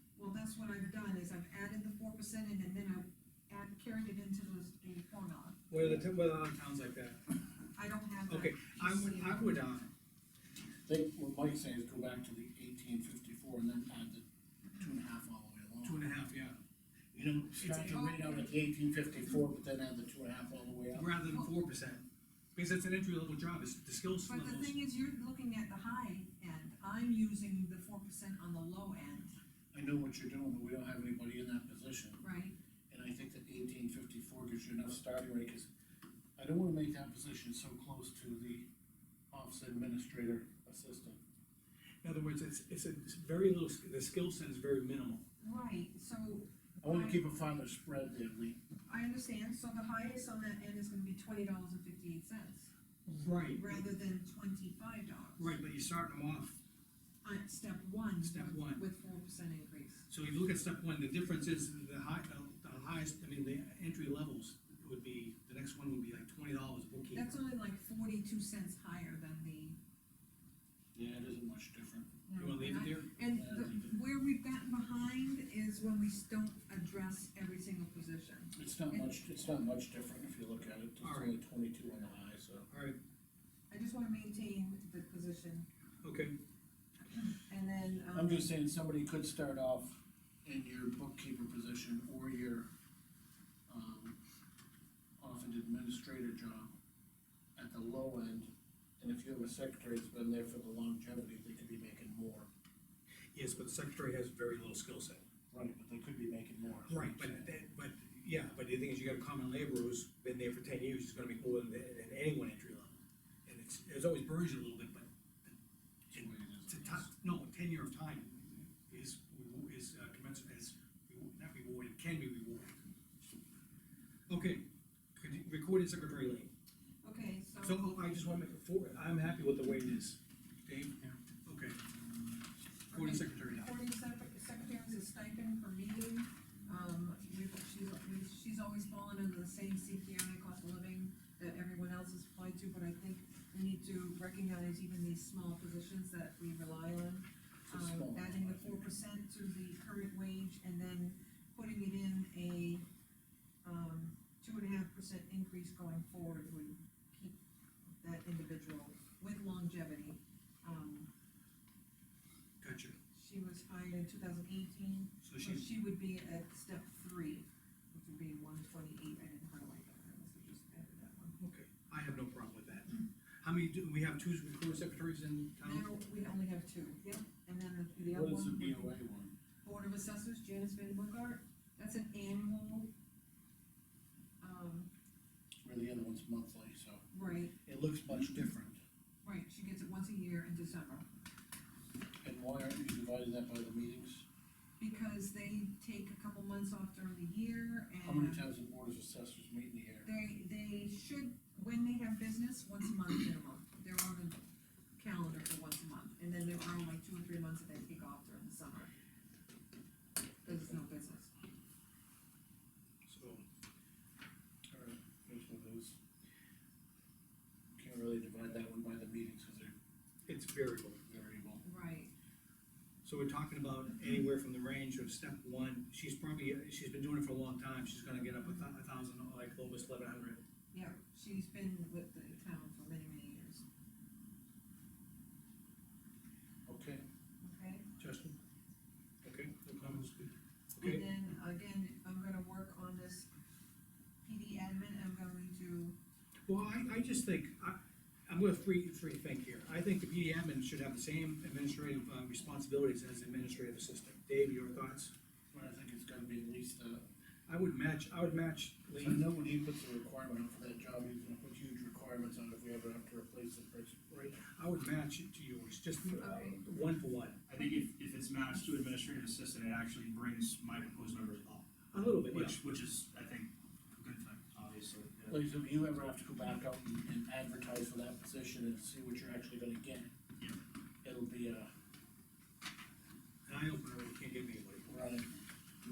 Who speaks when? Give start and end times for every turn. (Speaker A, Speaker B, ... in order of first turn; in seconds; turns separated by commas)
Speaker A: 0.2-5.6, Speaker B: 5.7-7.2, Speaker C: 5.8-6.0, Speaker A: 7.7-9.6, Speaker B: 8.3-9.9, Speaker C: 10.9-16.0, Speaker B: 15.8-16.6, Speaker C: 17.1-21.1, Speaker B: 17.6-17.9, Speaker A: 17.8-18.5, Speaker B: 20.9-24.8, Speaker A: 24.3-29.4, Speaker C: 29.7-32.2, Speaker A: 32.2-32.6, Speaker C: 32.9-35.7, Speaker C: 36.4-38.7, Speaker C: 39.3-41.2, Speaker B: 42.0-45.2, Speaker A: 45.4-47.3, Speaker C: 46.8-48.6, Speaker A: 48.9-52.7, Speaker B: 53.1-53.9, Speaker A: 53.4-55.6, Speaker B: 55.4-56.6, Speaker A: 57.2-60.0, Speaker B: 58.2-58.8, Speaker B: 60.1-67.4, Speaker A: 67.1-69.8, Speaker C: 70.9-72.2, Speaker A: 72.3-79.2, Speaker B: 72.4-73.1, Speaker C: 73.3-73.9, Speaker C: 78.5-82.7, Speaker B: 81.0-81.4, Speaker B: 82.7-83.0, Speaker A: 83.7-85.7, Speaker B: 86.0-86.3, Speaker A: 87.2-88.5, Speaker C: 88.1-92.7, Speaker C: 93.7-94.2, Speaker C: 95.2-96.7, Speaker C: 97.6-102.5, Speaker B: 103.3-105.2, Speaker C: 105.5-107.5, Speaker B: 106.9-115.5, Speaker C: 116.1-117.0, Speaker B: 116.1-122.8, Speaker B: 124.3-126.5, Speaker A: 127.0-128.2, Speaker B: 127.6-131.8, Speaker B: 132.9-133.7, Speaker A: 132.9-152.9, Speaker C: 147.7-148.9, Speaker A: 153.6-157.4, Speaker A: 158.0-161.1, Speaker B: 162.6-163.0, Speaker A: 163.1-171.4, Speaker B: 165.2-165.7, Speaker B: 171.4-175.9, Speaker A: 175.6-178.9, Speaker C: 178.1-179.3, Speaker A: 179.6-182.9, Speaker A: 184.4-184.9, Speaker C: 185.6-187.0, Speaker A: 187.1-187.6, Speaker C: 187.7-188.8, Speaker A: 189.2-191.1, Speaker C: 192.2-194.3, Speaker A: 194.8-198.4, Speaker C: 198.0-200.1, Speaker A: 200.1-204.4, Speaker A: 205.0-208.9, Speaker A: 210.4-211.3, Speaker B: 213.1-213.4, Speaker C: 214.7-216.0, Speaker C: 217.8-219.7, Speaker B: 220.3-221.0, Speaker C: 221.1-221.6, Speaker A: 221.6-222.1, Speaker B: 223.0-230.4, Speaker A: 230.7-233.6, Speaker C: 236.7-237.0, Speaker A: 237.4-237.9, Speaker B: 238.0-238.4, Speaker B: 239.2-241.0, Speaker A: 240.8-243.3, Speaker A: 244.2-246.0, Speaker B: 246.5-255.1, Speaker C: 255.5-257.1, Speaker B: 257.5-259.2, Speaker C: 259.0-264.1, Speaker B: 264.1-267.4, Speaker A: 266.2-266.6, Speaker D: 267.5-275.4, Speaker B: 271.9-272.6, Speaker C: 275.3-280.1, Speaker C: 281.0-281.7, Speaker B: 283.5-284.9, Speaker C: 284.9-285.3